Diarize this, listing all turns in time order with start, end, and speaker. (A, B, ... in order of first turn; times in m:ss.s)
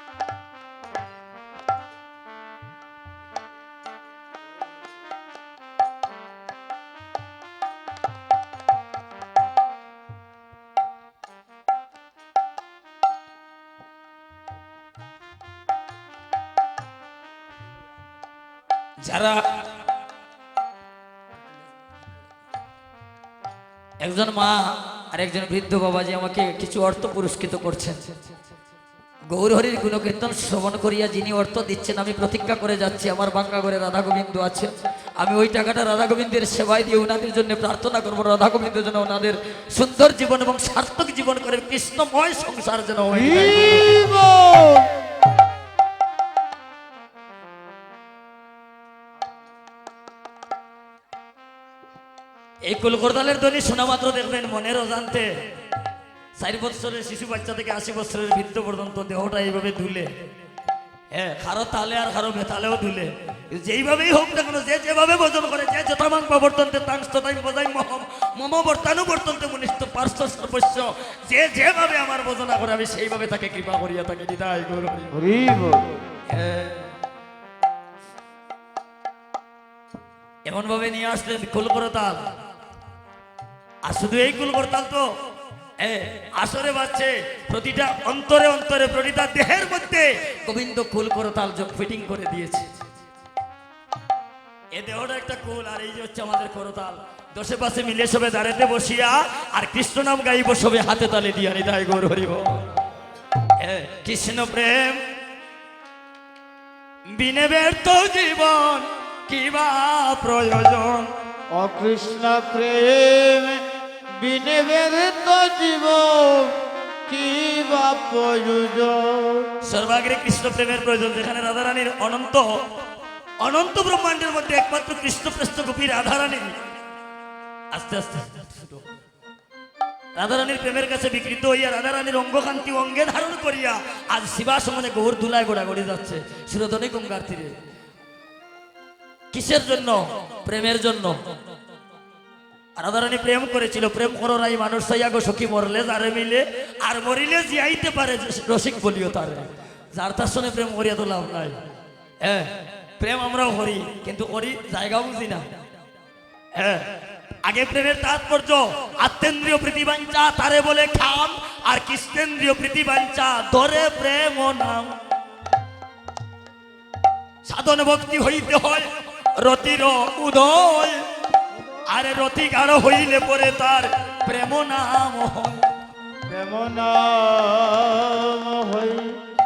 0:19.0-0:19.4 A
0:24.0-0:24.6 A
0:25.1-0:28.0 A
0:29.3-0:44.0 A
0:43.1-0:44.9 B
0:52.7-0:55.3 A
0:56.4-1:00.1 A
1:01.1-1:15.1 A
1:15.1-1:15.8 B
1:16.3-1:16.9 A
1:20.5-1:22.2 A
1:23.8-1:25.0 A
1:25.8-1:32.7 A
1:34.7-1:42.6 A
1:43.6-1:45.0 A
1:47.1-1:51.1 A
1:51.5-1:59.5 B
1:59.6-2:02.5 A
2:03.4-2:06.5 A
2:07.7-2:08.8 A
2:10.2-2:17.5 A
2:19.3-2:21.2 A
2:22.8-2:31.6 A
2:32.2-2:35.4 A
2:36.6-2:36.9 A
2:37.4-2:44.9 A
2:47.4-2:51.0 A
2:51.9-2:55.6 A
2:56.3-2:59.2 B